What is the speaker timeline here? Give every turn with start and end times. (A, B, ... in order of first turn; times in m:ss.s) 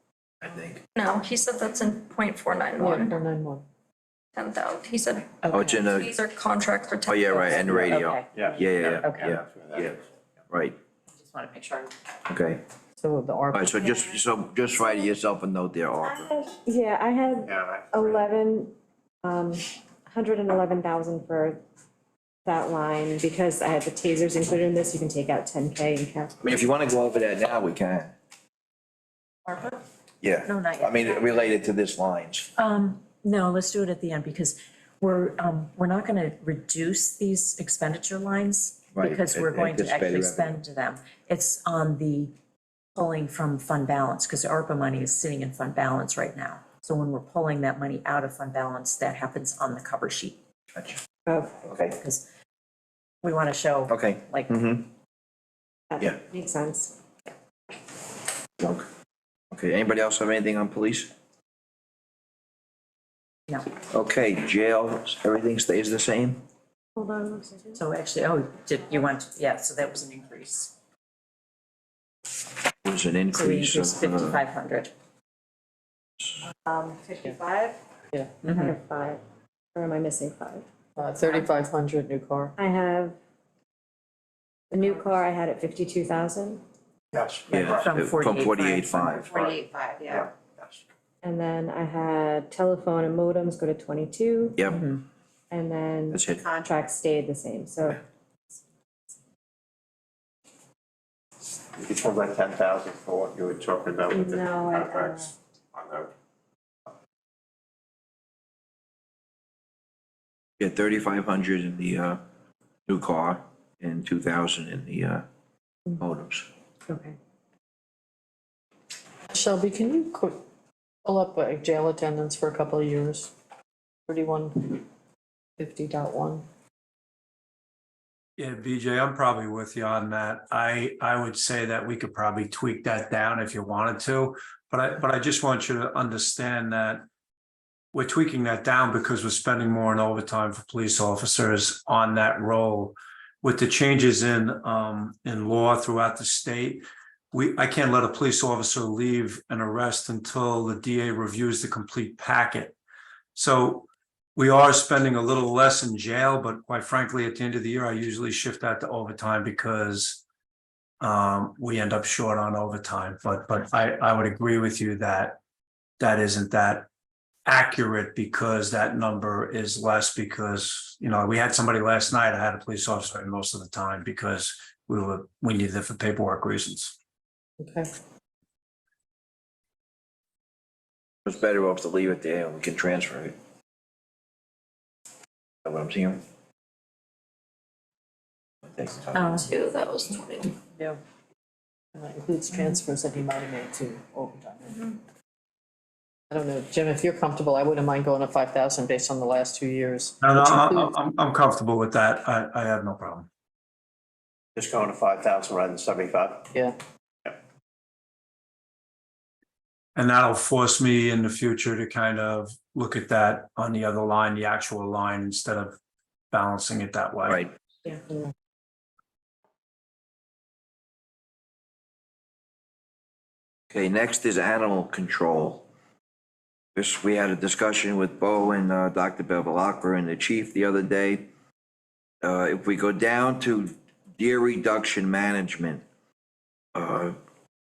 0:00.4-0:00.8 A
0:01.0-0:03.2 B
0:02.8-0:03.6 C
0:04.3-0:07.4 B
0:05.4-0:05.8 D
0:05.5-0:06.1 A
0:07.1-0:09.9 A
0:07.3-0:09.4 D
0:08.4-0:10.0 E
0:10.5-0:10.8 A
0:11.1-0:11.9 D
0:12.3-0:12.6 A
0:13.0-0:13.9 C
0:13.5-0:16.4 A
0:16.0-0:21.6 F
0:17.5-0:18.2 E
0:22.4-0:26.3 F
0:26.4-0:28.1 A
0:30.2-0:32.5 A
0:30.4-0:31.4 D
0:32.6-0:42.3 D
0:38.9-0:40.6 A
0:43.0-0:50.4 D
0:50.8-0:52.0 A
0:51.3-0:51.6 F
0:52.0-0:52.2 D
0:53.2-0:54.5 D
0:53.9-0:54.9 A
0:55.9-0:57.0 F
0:58.6-0:58.9 A
0:59.5-1:01.1 A
1:03.9-1:06.4 A
1:07.0-1:07.8 F
1:07.7-1:10.7 D
1:12.8-1:14.4 A
1:13.3-1:14.9 D
1:16.6-1:17.8 F
1:18.4-1:19.2 F
1:19.8-1:20.7 F
1:21.0-1:22.6 C
1:22.6-1:23.2 F
1:24.7-1:26.6 F
1:27.1-1:27.8 E
1:27.5-1:30.1 D
1:27.5-1:29.4 A
1:29.3-1:30.7 E
1:31.2-1:34.6 F
1:34.6-1:34.8 A
1:34.7-1:35.0 D
1:35.5-1:38.0 F
1:36.1-1:36.4 A
1:41.8-1:46.1 E
1:44.1-1:45.3 F
1:50.6-1:52.2 A
1:52.9-1:55.2 A
1:56.0-1:56.5 A
1:56.9-1:57.2 F
1:59.3-2:00.4 C
2:01.0-2:03.3 C
2:04.1-2:04.8 C
2:05.6-2:06.4 C
2:08.4-2:17.0 G
2:17.9-2:32.8 G
2:33.4-2:40.2 G
2:41.0-2:45.4 G
2:46.0-2:46.9 G
2:47.5-2:57.0 G
2:57.6-2:57.9 C
3:01.3-3:03.4 A
3:05.6-3:06.2 A
3:08.6-3:09.4 A
3:09.2-3:09.5 D
3:09.4-3:10.6 B
3:12.0-3:14.8 C
3:16.3-3:20.9 C
3:20.2-3:23.3 G
3:24.6-3:26.5 E
3:30.0-3:35.8 G
3:36.3-3:37.5 G
3:43.7-3:45.6 A
3:46.8-3:51.3 A
3:52.2-3:55.8 A
3:56.8-3:57.2 A